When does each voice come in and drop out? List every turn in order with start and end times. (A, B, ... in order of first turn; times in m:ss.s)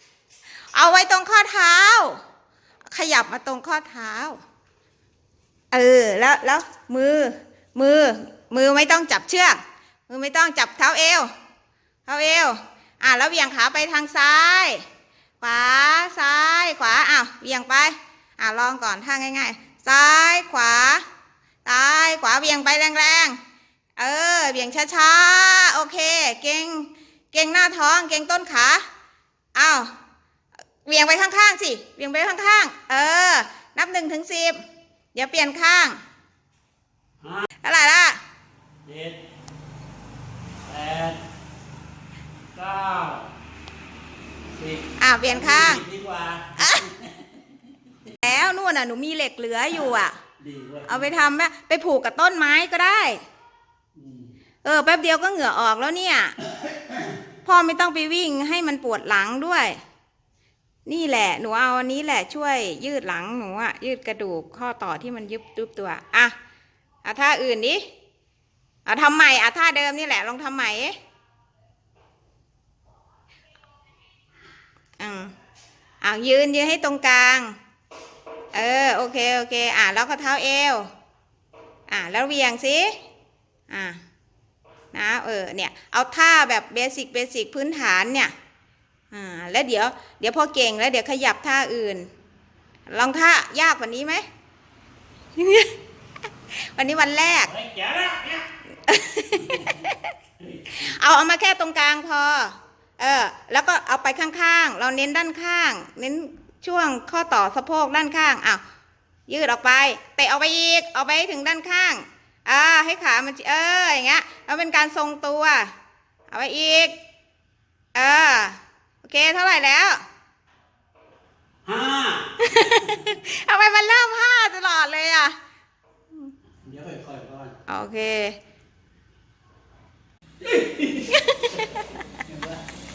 0:00.7-0:02.2 A
0:02.9-0:04.4 A
0:05.7-0:11.3 A
0:12.1-0:14.8 A
0:15.4-0:21.0 A
0:21.6-0:23.4 A
0:24.0-0:28.8 A
0:29.6-0:29.9 A
0:30.8-0:34.6 A
0:35.2-0:36.0 A
0:37.2-0:37.5 B
0:37.6-0:38.2 A
0:38.8-0:39.2 B
0:40.6-0:41.2 B
0:42.5-0:43.3 B
0:44.5-0:47.2 B
0:45.0-0:45.8 A
0:46.6-0:46.9 A
0:48.2-0:50.2 A
0:50.4-0:51.1 B
0:50.9-0:53.2 A
0:54.0-0:54.3 B
0:54.6-0:56.4 A
0:57.4-0:59.8 A
1:00.9-1:06.4 A
1:07.0-1:07.9 A
1:08.9-1:11.0 A
1:15.0-1:15.4 A
1:16.0-1:17.6 A
1:18.5-1:20.9 A
1:21.9-1:23.0 A
1:23.7-1:24.0 A
1:24.9-1:28.3 A
1:29.1-1:32.1 A
1:32.9-1:34.2 A
1:35.4-1:35.8 A
1:36.5-1:37.5 A
1:37.5-1:38.4 B
1:38.8-1:40.1 A
1:39.3-1:39.8 B
1:40.4-1:40.8 B
1:40.7-1:48.6 A
1:49.3-1:55.7 A
1:56.3-1:57.0 A
1:57.9-2:00.0 A
2:01.6-2:02.3 B
2:02.4-2:05.4 A
2:06.6-2:07.6 B
2:07.7-2:08.4 A
2:10.4-2:12.6 B
2:11.0-2:11.9 A